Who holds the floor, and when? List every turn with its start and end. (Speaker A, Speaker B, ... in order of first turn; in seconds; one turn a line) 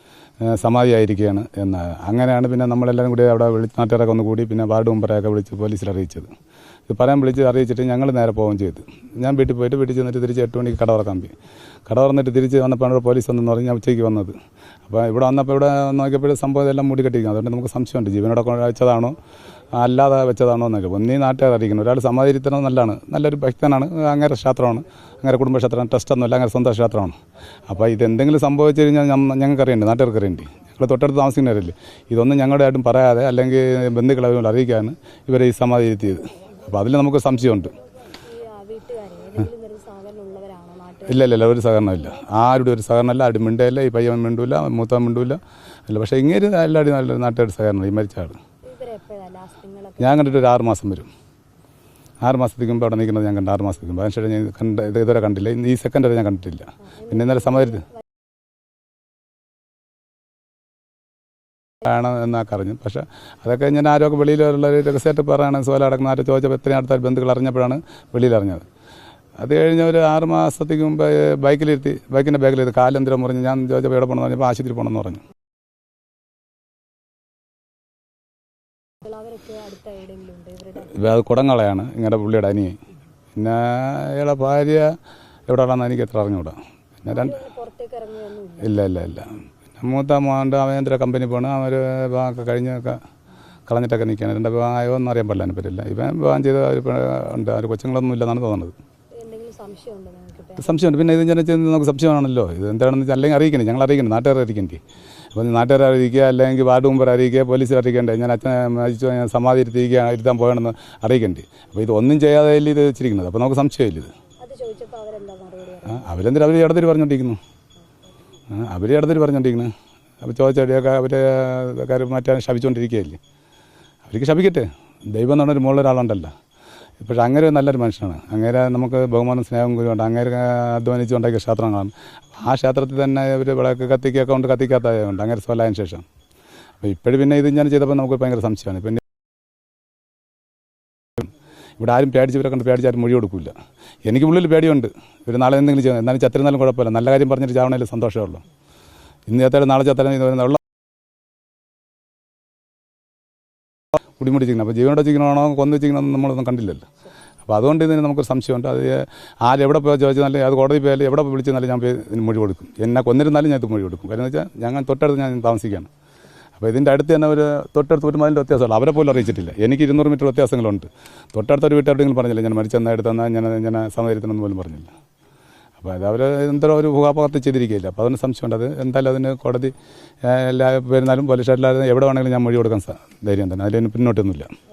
Speaker A: 0.4-6.3
Speaker A: 6.9-11.3
Speaker A: 11.9-14.3
Speaker A: 14.9-19.2
Speaker A: 19.8-27.2
Speaker A: 27.7-37.8
Speaker B: 38.1-41.3
Speaker A: 41.1-48.4
Speaker B: 48.6-50.3
Speaker A: 50.0-51.1
Speaker A: 52.2-57.8
Speaker B: 57.0-58.0
Speaker A: 61.8-68.7
Speaker A: 69.4-75.2
Speaker B: 79.0-81.0
Speaker A: 80.9-82.8
Speaker A: 83.3-85.0
Speaker A: 85.5-87.4
Speaker B: 87.1-88.8
Speaker A: 88.6-93.0
Speaker A: 93.7-98.8
Speaker B: 99.2-101.0
Speaker A: 100.6-104.8
Speaker A: 105.3-114.1
Speaker B: 114.4-116.2
Speaker A: 115.9-117.4
Speaker A: 118.5-119.7
Speaker A: 120.2-123.2
Speaker A: 124.1-126.3
Speaker A: 127.0-136.0
Speaker A: 136.8-139.0
Speaker A: 141.2-143.5
Speaker A: 144.1-148.4
Speaker A: 149.3-150.6
Speaker A: 154.2-156.9
Speaker A: 157.5-165.9
Speaker A: 166.6-174.9
Speaker A: 175.8-184.5